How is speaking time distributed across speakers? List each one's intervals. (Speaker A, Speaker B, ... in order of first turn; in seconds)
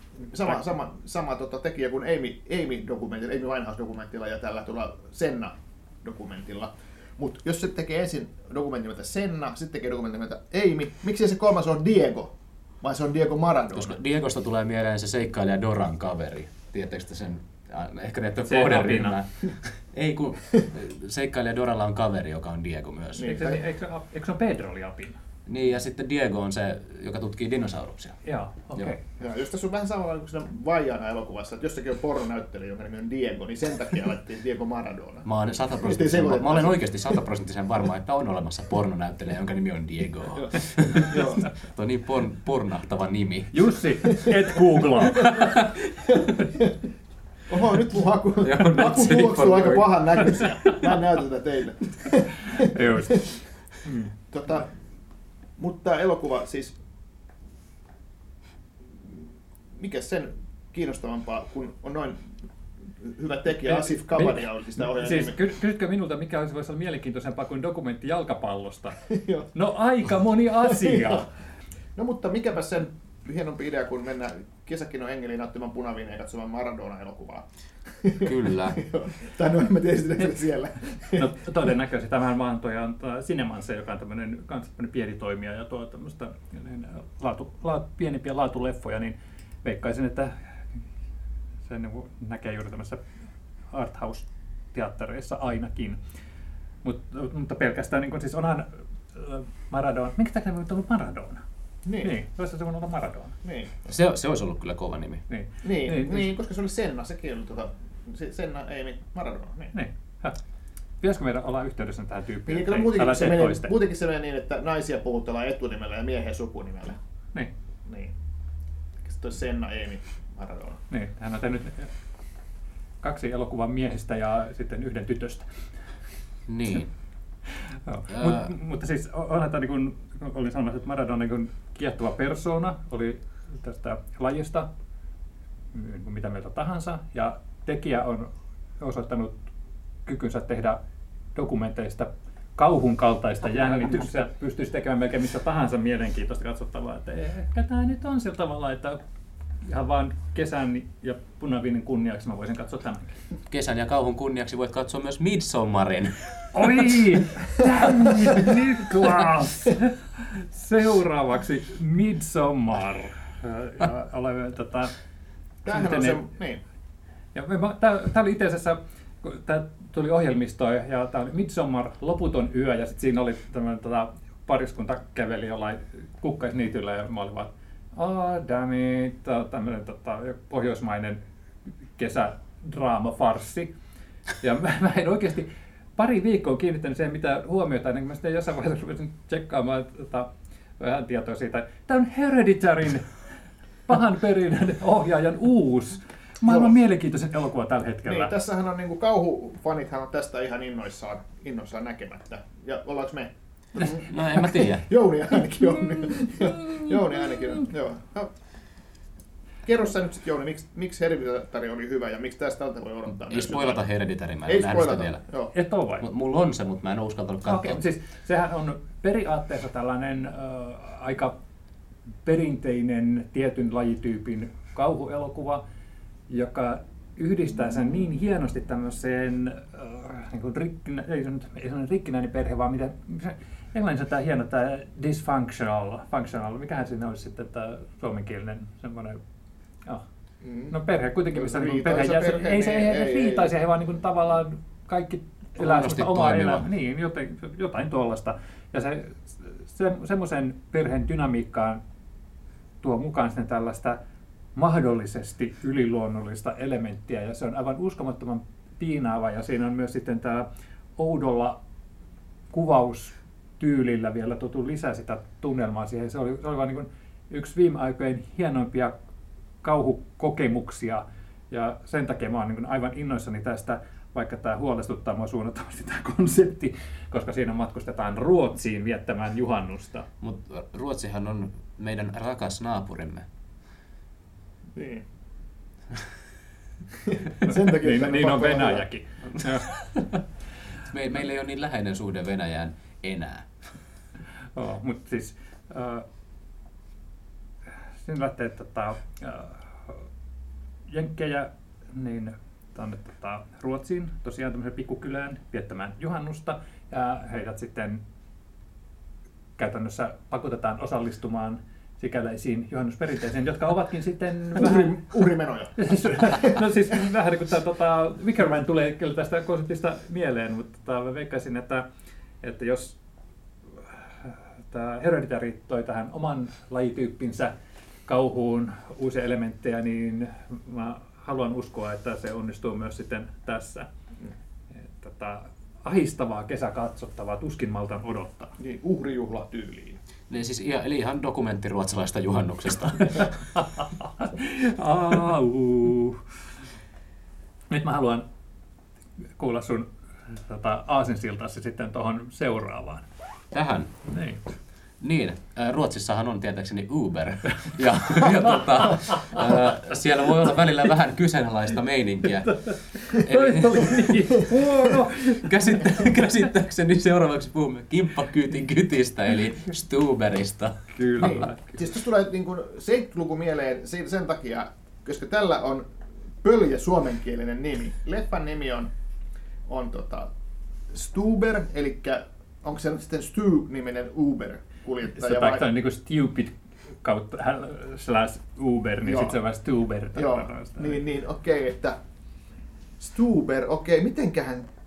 Speaker A: 0.3-13.9, 23.1-23.6, 29.2-35.2, 35.8-37.2, 40.4-41.5, 46.1-46.8, 47.5-53.2, 54.3-54.7, 55.6-56.8, 59.8-62.3, 63.0-65.4, 69.1-69.5, 70.6-71.2, 72.0-77.5, 78.0-81.3, 101.8-102.1, 103.4-103.7, 105.6-109.7, 112.5-117.0, 117.8-118.1, 119.0-120.8, 165.6-166.6, 196.4-196.8, 198.1-208.3, 209.6-213.8, 214.4-215.5, 240.4-240.7, 241.3-243.6, 284.7-285.0, 287.1-288.9, 314.5-316.7, 338.6-340.0, 371.2-375.8, 376.4-378.9, 379.7-380.3, 380.9-385.6, 389.0-389.4, 390.1-392.0, 393.0-394.7
Speaker B: 13.7-23.4, 25.5-28.2, 35.2-43.7, 45.2-45.9, 48.4-50.0, 78.2-78.8, 103.8-105.2, 126.5-126.9, 128.1-128.5, 153.5-156.8, 203.8-204.9, 213.2-215.2, 216.0-217.8, 245.6-246.7, 280.2-283.3, 289.7-290.2, 290.8-293.5, 340.3-343.4, 353.5-353.9, 355.0-364.2, 365.4-371.4
Speaker C: 18.4-19.2, 23.2-25.2, 28.2-29.0, 43.5-45.6, 52.5-54.1, 63.6-69.0, 69.5-71.3, 81.1-90.6, 91.6-93.0, 93.7-96.0, 96.8-101.4, 102.0-103.4, 105.3-106.3, 109.7-110.4, 111.0-113.7, 120.9-121.9, 123.0-125.5, 127.5-134.7, 135.7-139.4, 140.0-140.8, 141.3-149.0, 149.6-153.1, 156.5-164.9, 165.7-166.2, 167.3-181.2, 182.0-183.7, 184.4-193.1, 193.9-198.3, 206.2-206.9, 215.5-216.0, 217.4-221.3, 222.2-225.6, 226.3-239.2, 240.7-251.8, 252.8-254.0, 254.5-261.6, 262.5-268.9, 269.6-280.1, 287.4-289.7, 294.5-296.1, 298.0-300.1, 300.9-308.0, 309.6-315.1, 315.8-321.8, 322.4-323.0, 323.8-327.5, 328.1-333.9, 334.8-338.5, 343.1-346.2, 347.7-348.2, 349.4-353.1, 354.1-354.4, 357.6-359.6, 362.4-366.4, 370.9-371.7, 385.1-391.0